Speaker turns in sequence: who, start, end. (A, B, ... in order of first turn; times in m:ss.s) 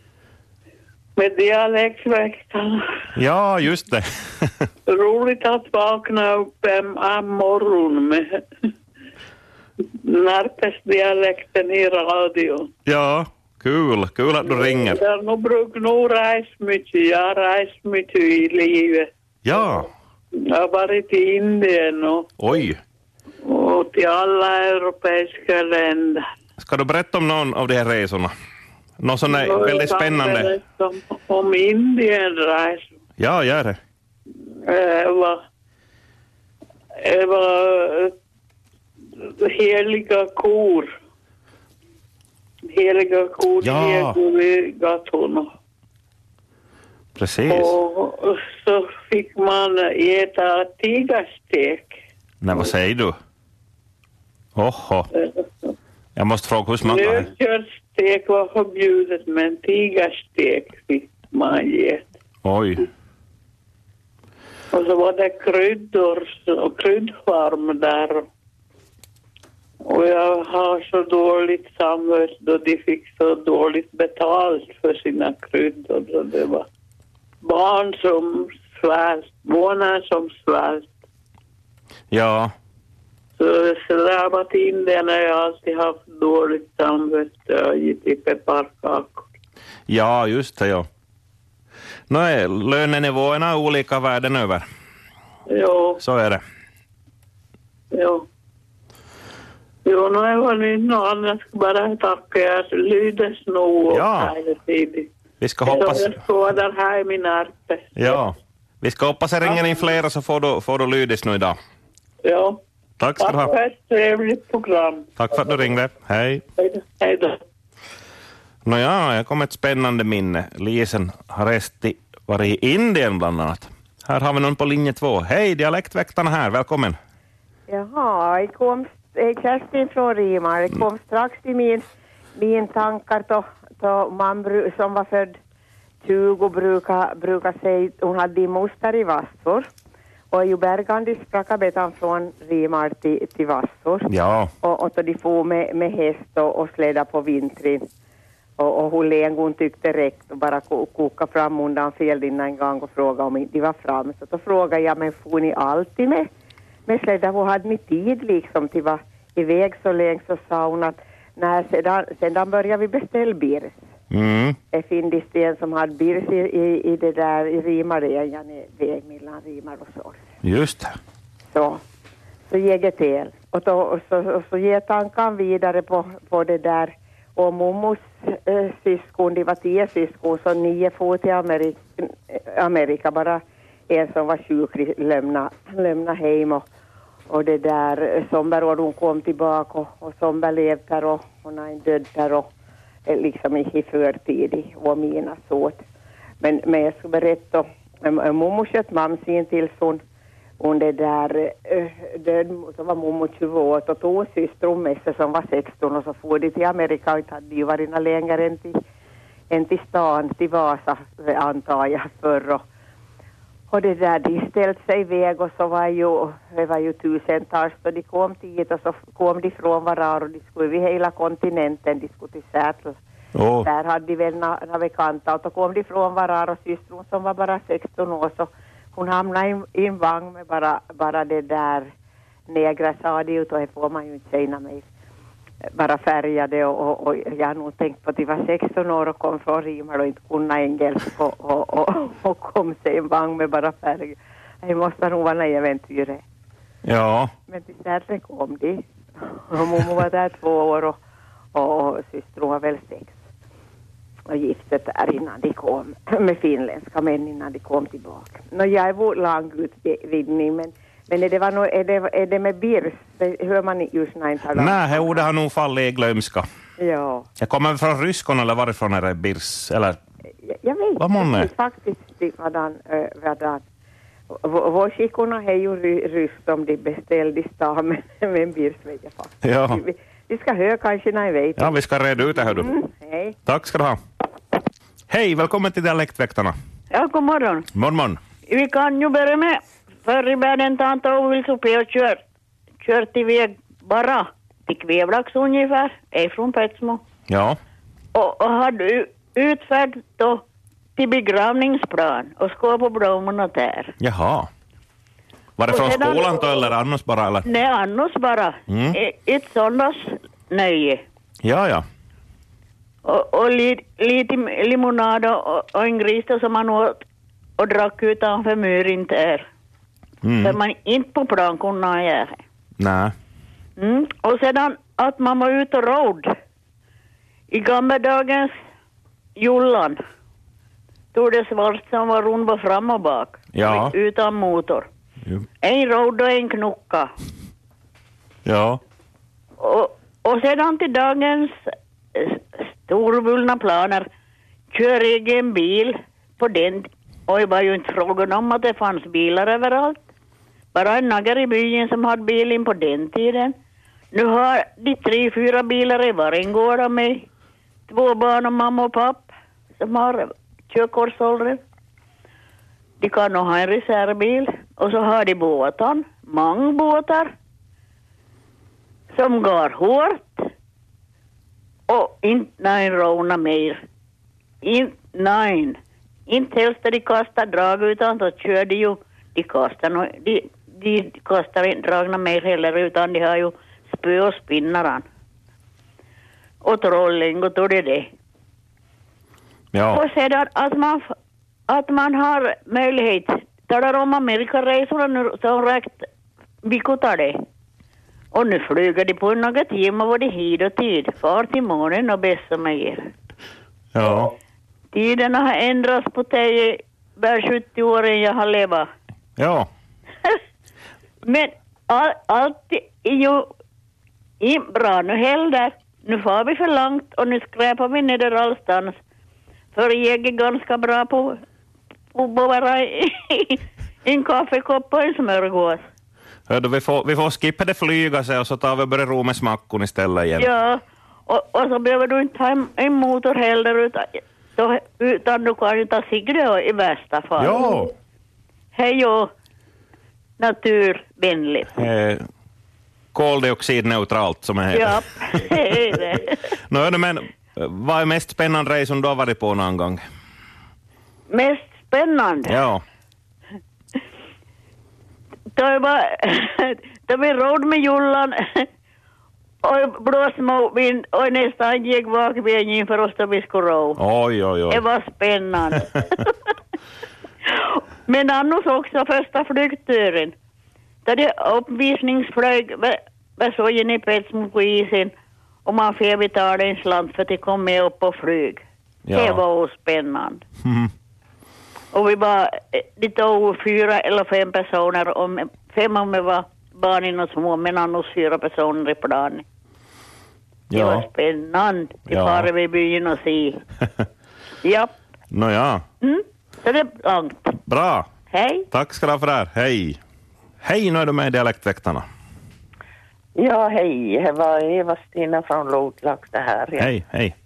0:01.2-0:03.1 A
0:03.2-0:04.7 B
0:04.8-0:08.6 A
0:09.8-0:12.7 A
0:12.8-0:15.0 B
0:14.5-0:19.1 A
0:19.4-0:19.9 B
0:20.4-0:22.3 A
0:22.4-0:22.8 B
0:23.4-0:26.2 A
0:26.6-0:28.3 B
0:29.0-0:30.5 B
0:29.3-0:32.9 A
0:33.2-0:33.8 B
0:34.6-0:35.4 A
0:37.0-0:38.1 A
0:39.2-0:40.9 A
0:42.7-0:45.5 A
0:43.6-0:44.2 B
0:47.2-0:47.7 B
0:47.5-0:52.0 A
0:52.4-0:53.2 B
0:54.6-0:55.1 B
0:55.1-0:55.7 A
0:56.2-0:57.3 B
0:56.8-1:02.0 A
1:02.4-1:02.9 B
1:04.7-1:08.3 A
1:09.8-1:16.7 A
1:17.4-1:20.9 A
1:22.1-1:22.5 B
1:23.4-1:29.3 A
1:29.9-1:30.9 B
1:32.1-1:34.6 B
1:35.5-1:36.0 A
1:36.0-1:36.4 B
1:37.9-1:38.2 A
1:39.8-1:45.1 A
1:43.9-1:44.3 B
1:45.4-1:46.2 B
1:45.6-1:48.2 A
1:48.0-1:51.6 B
1:49.4-1:49.8 A
1:52.2-1:52.6 A
1:53.0-1:53.5 B
1:53.2-1:55.1 A
1:55.2-1:56.4 B
1:56.6-1:57.4 A
1:58.6-2:07.0 B
2:07.7-2:15.4 C
2:16.0-2:19.7 C
2:20.3-2:27.8 C
2:24.1-2:24.5 B
2:28.6-2:36.3 C
2:36.9-2:43.8 C
2:44.1-2:44.6 B
2:44.7-2:50.2 C
2:50.4-2:50.9 B
2:51.5-2:51.8 C
2:52.5-3:06.6 C
3:07.3-3:12.5 C
3:13.0-3:15.8 C
3:16.4-3:20.0 C
3:20.6-3:28.8 C
3:29.5-3:32.6 C
3:33.7-3:43.0 C
3:43.3-3:43.7 B
3:43.6-3:51.9 C
3:52.5-3:54.8 C
3:55.6-4:06.2 C
4:06.8-4:07.3 B
4:07.5-4:11.0 C
4:11.5-4:13.2 C
4:14.3-4:25.2 C
4:24.6-4:26.4 B
4:26.8-4:27.3 C
4:27.4-4:30.0 B
4:30.4-4:33.6 C
4:31.0-4:31.5 B
4:34.3-4:43.4 C
4:39.4-4:39.8 B
4:41.6-4:42.7 B
4:43.4-4:44.0 B
4:45.1-4:46.5 B
4:46.9-4:47.7 D
4:47.7-4:48.2 B
4:48.5-4:52.2 D
4:52.8-4:57.0 D
4:57.3-4:57.6 B
4:58.1-5:00.4 D
5:01.0-5:04.0 D
5:04.0-5:04.5 B
5:05.6-5:07.4 B
5:05.7-5:06.4 D
5:07.4-5:11.0 D
5:08.7-5:09.0 B
5:11.4-5:11.8 B
5:13.0-5:17.0 D
5:17.6-5:19.5 D
5:20.2-5:20.6 B
5:20.4-5:22.4 D
5:22.8-5:23.1 B
5:23.8-5:26.3 D
5:27.5-5:28.5 D
5:29.4-5:30.0 D
5:31.1-5:34.9 D
5:33.5-5:33.9 B
5:35.6-5:37.1 D
5:38.4-5:38.8 B
5:39.6-5:44.1 D
5:44.7-5:50.0 D
5:50.7-5:53.5 D
5:54.1-5:57.2 D
5:57.9-6:01.6 D
6:03.0-6:07.3 D
6:09.1-6:10.5 D
6:11.9-6:13.8 D
6:14.6-6:25.0 D
6:26.6-6:28.1 D
6:29.7-6:30.0 B
6:29.9-6:31.1 D
6:31.7-6:36.1 D
6:36.6-6:37.4 D
6:38.3-6:43.1 D
6:43.9-6:44.3 B
6:44.9-6:48.9 D
6:49.4-6:49.7 B
6:51.2-6:53.5 D
6:54.4-6:59.0 D
6:59.7-7:01.4 D
7:02.1-7:05.8 D
7:06.5-7:10.5 B
7:10.4-7:17.8 D
7:17.4-7:17.9 B
7:18.7-7:19.3 D
7:20.4-7:21.7 D
7:21.8-7:22.2 B
7:23.1-7:25.5 B
7:24.7-7:26.4 D
7:26.7-7:30.0 B
7:31.3-7:32.6 D
7:32.5-7:32.8 B
7:35.5-7:38.7 D
7:39.6-7:44.0 D
7:44.0-7:44.8 B
7:44.7-7:46.3 D
7:47.5-7:50.3 D
7:51.0-7:55.1 D
7:55.6-8:00.4 D
7:59.1-7:59.4 B
8:00.6-8:00.9 B
8:01.9-8:09.4 D
8:10.7-8:11.0 B
8:10.7-8:13.6 D
8:12.1-8:12.5 B
8:14.6-8:14.9 D
8:15.3-8:15.8 B
8:16.0-8:17.6 D
8:17.6-8:18.1 B
8:18.3-8:18.7 D
8:18.7-8:20.0 B
8:20.6-8:22.0 B
8:23.3-8:26.9 E
8:26.8-8:27.3 B